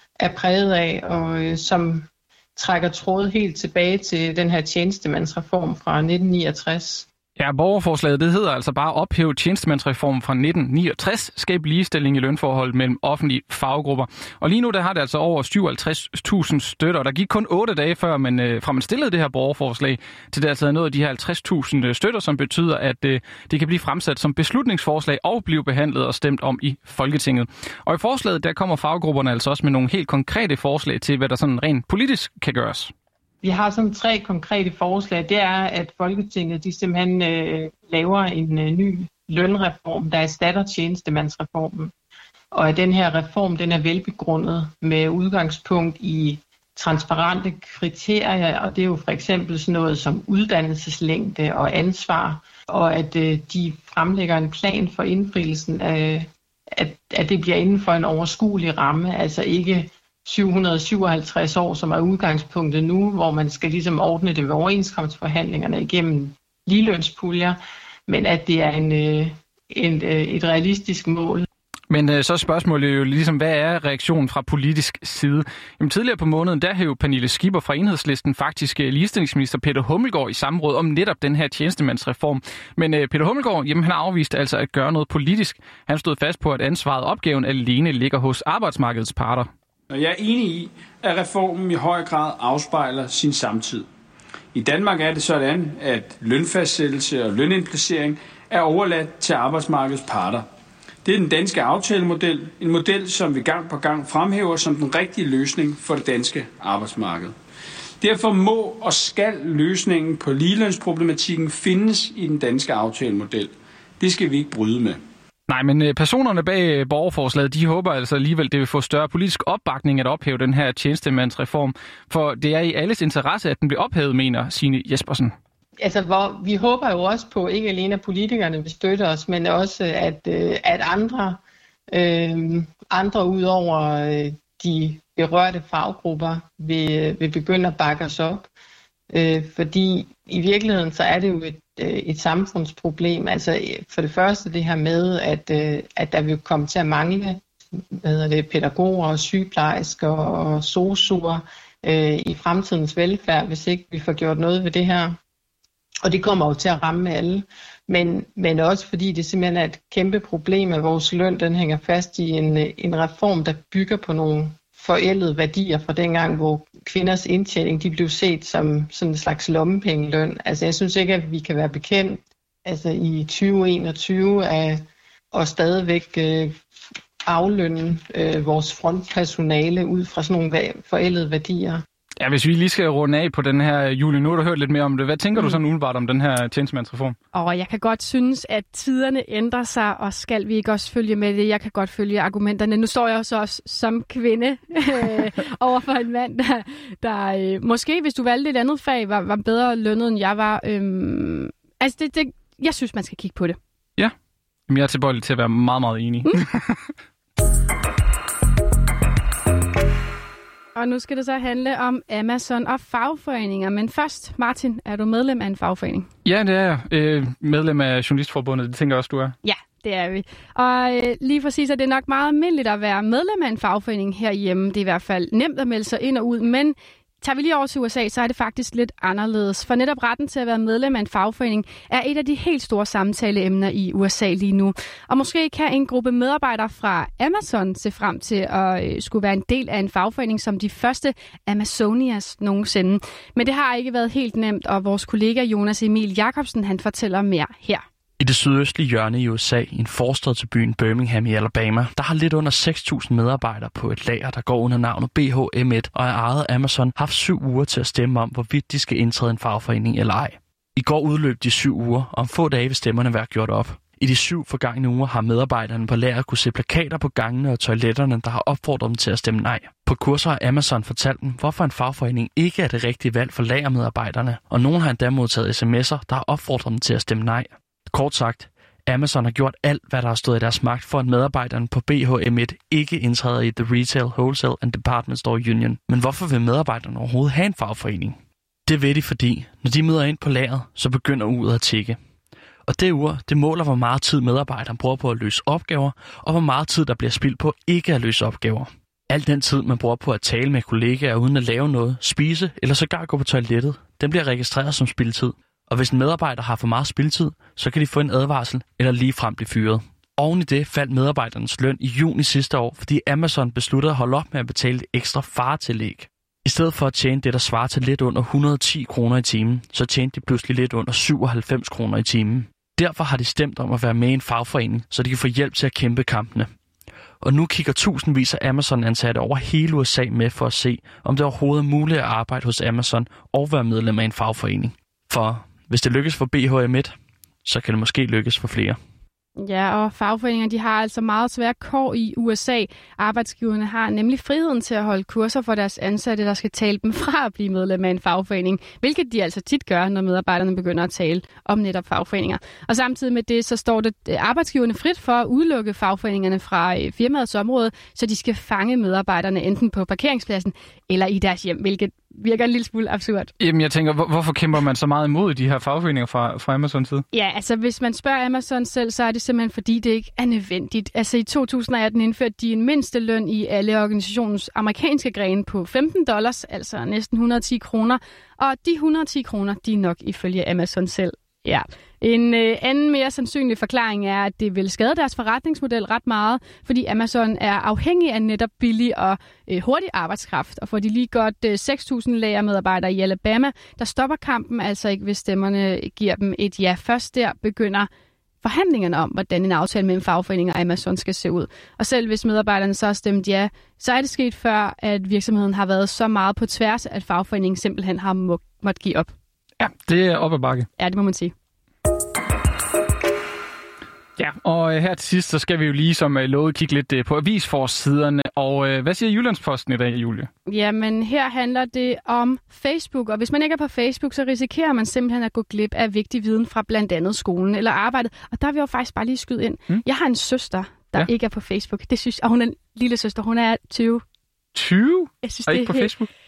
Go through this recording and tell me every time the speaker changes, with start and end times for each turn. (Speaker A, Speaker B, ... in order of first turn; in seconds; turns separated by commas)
Speaker A: 0.2-7.1, Speaker B: 7.4-32.9, Speaker A: 33.4-41.9, Speaker A: 42.5-67.6, Speaker A: 68.1-71.5, Speaker B: 71.9-89.5, Speaker C: 89.9-93.8, Speaker C: 94.5-100.4, Speaker C: 101.0-107.3, Speaker C: 108.0-115.0, Speaker B: 115.5-125.3, Speaker A: 125.8-131.4, Speaker A: 131.9-138.5, Speaker A: 139.1-147.4, Speaker A: 148.0-155.2, Speaker A: 156.0-174.8, Speaker A: 175.3-176.5, Speaker A: 177.2-181.8, Speaker B: 182.2-187.2, Speaker D: 187.3-203.6, Speaker B: 204.7-206.8, Speaker D: 210.7-216.1, Speaker B: 216.2-219.3, Speaker D: 219.4-247.8, Speaker E: 248.2-292.0, Speaker E: 292.7-326.5, Speaker E: 327.2-336.9, Speaker E: 337.4-338.8, Speaker D: 339.4-363.3, Speaker B: 363.4-367.0, Speaker D: 367.1-397.9, Speaker D: 398.4-409.1, Speaker B: 409.6-410.7, Speaker D: 410.8-411.3, Speaker B: 414.2-420.3, Speaker D: 420.5-434.0, Speaker B: 434.5-436.1, Speaker D: 435.2-435.9